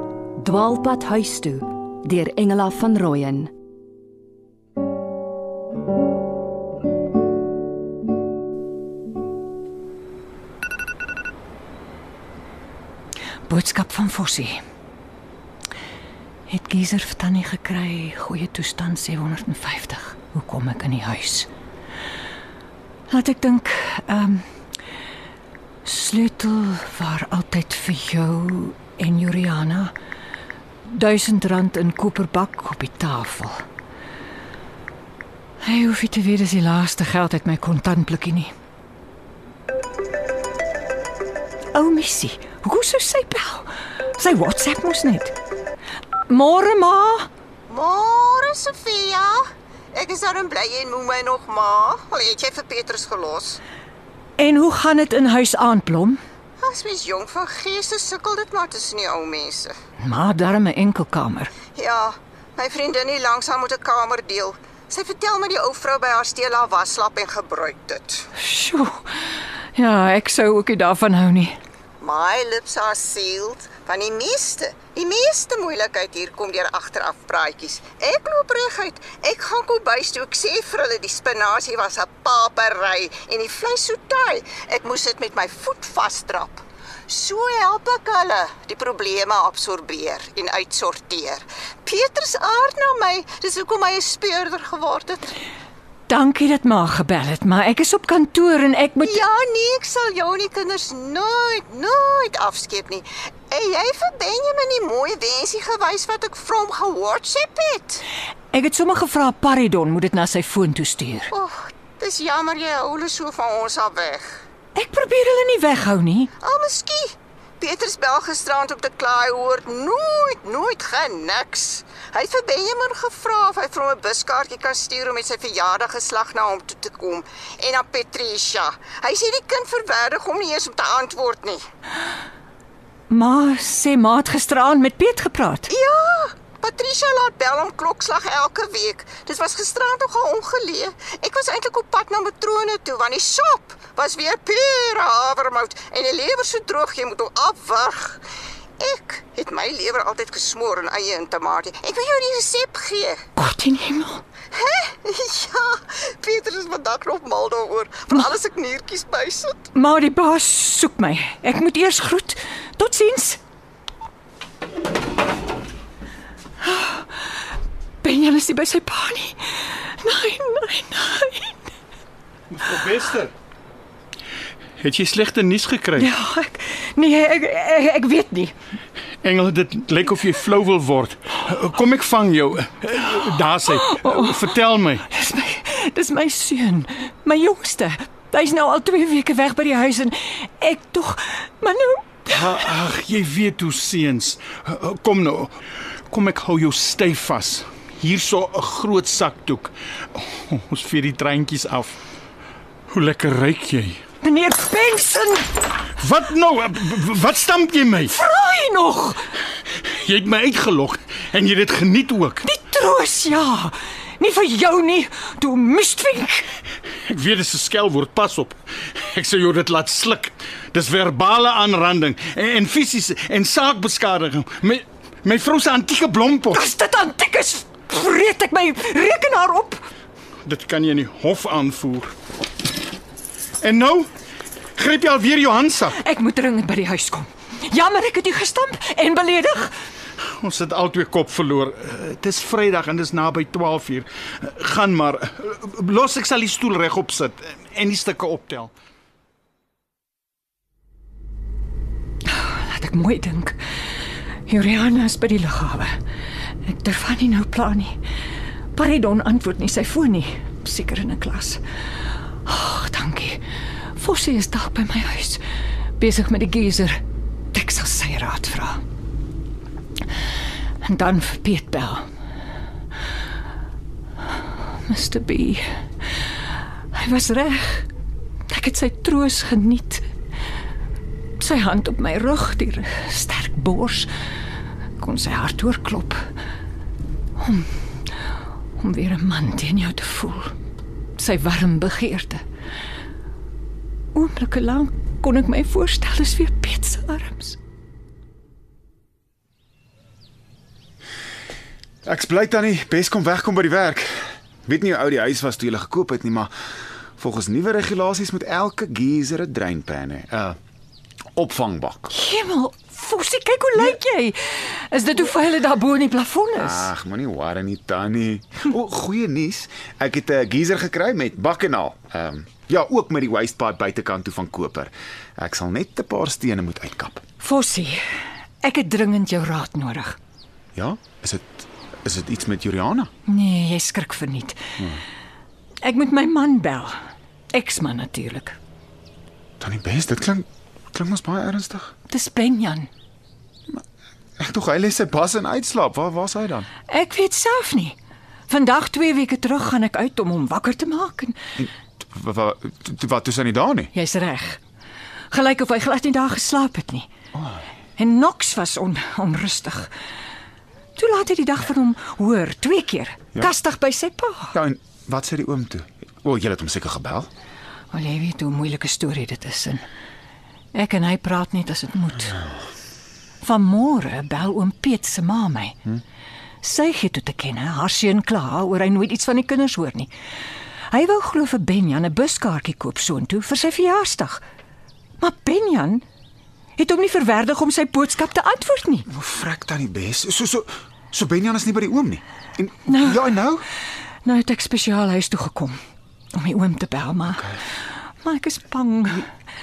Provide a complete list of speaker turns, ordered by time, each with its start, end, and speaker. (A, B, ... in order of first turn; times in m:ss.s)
0:00.4-0:03.5 A
0:13.5-0:14.6 B
0:16.5-0:21.5 B
0:23.1-0:24.4 B
0:25.8-0:29.9 B
0:30.9-0:33.6 B
0:35.6-0:38.5 B
0:41.7-0:45.3 B
0:46.3-0:47.3 B
0:47.7-0:53.6 C
0:54.4-0:56.2 B
0:56.6-0:59.7 C
1:00.0-1:01.5 B
1:01.7-1:08.3 C
1:08.4-1:09.1 B
1:09.7-1:11.6 B
1:12.0-1:35.2 C
1:36.1-1:39.2 B
1:39.0-1:48.0 C
1:48.5-1:51.3 B
1:51.3-1:54.4 C
1:54.7-1:56.3 B
1:56.4-2:11.6 C
2:13.1-2:15.7 B
2:15.7-2:28.2 C
2:28.8-2:33.2 C
2:33.4-2:34.2 B
2:34.5-2:39.6 C
2:39.7-2:43.4 B
2:46.6-2:47.0 B
2:48.0-2:51.6 B
2:52.5-2:53.3 D
2:54.8-2:56.1 D
2:56.0-2:58.5 B
2:59.2-3:05.0 D
3:03.9-3:04.3 B
3:05.1-3:12.3 B
3:12.3-3:15.5 D
3:16.1-3:21.9 D
3:22.9-3:24.0 D
3:24.2-3:25.5 B
3:26.0-3:28.1 D
3:28.1-3:29.2 B
3:29.6-3:32.4 D
3:32.4-3:36.5 B
3:37.0-3:46.6 D
3:46.5-3:49.8 B
3:50.4-3:52.1 D
3:53.6-3:54.1 D
3:54.8-3:56.0 D
3:55.9-3:59.7 B
4:00.3-4:08.7 D
4:12.3-4:13.6 B
4:14.5-4:16.0 B
4:16.6-4:18.0 B
4:18.7-4:21.6 B
4:22.4-4:23.4 B
4:23.9-4:25.4 B
4:26.0-4:27.0 B
4:27.5-4:28.8 B
4:30.8-4:32.1 B
4:34.7-4:36.2 B
4:36.9-4:37.9 B
4:38.5-4:40.0 B
4:41.4-4:44.1 B
4:45.0-4:46.2 B
4:47.4-4:48.1 B
4:48.8-4:50.5 B
4:51.2-4:52.4 B
4:54.1-4:57.6 B
5:02.0-5:06.5 E
5:07.2-5:10.6 E
5:11.4-5:12.1 E
5:12.1-5:16.9 B
5:16.6-5:27.2 E
5:27.4-5:28.0 B
5:28.6-5:30.2 B
5:30.7-5:33.1 E
5:33.2-5:34.6 B
5:35.8-5:37.0 B
5:37.5-5:38.6 B
5:39.6-5:41.9 E
5:42.1-5:42.9 B
5:44.4-5:46.7 E
5:46.9-5:48.0 B
5:48.5-5:51.4 B
5:51.6-5:53.9 E
5:53.9-5:54.6 B
5:55.3-5:57.1 B
5:57.3-5:57.6 E
5:58.0-5:59.9 B
6:01.0-6:04.5 B
6:04.5-6:07.3 E
6:07.9-6:09.8 B
6:10.7-6:12.4 B
6:13.4-6:15.8 B
6:16.6-6:20.1 B
6:20.9-6:24.4 B
6:25.2-6:26.0 B
6:26.8-6:29.1 B
6:29.1-6:33.6 E
6:32.9-6:33.2 B
6:34.2-6:35.8 B
6:36.3-6:37.6 B
6:38.2-6:39.3 B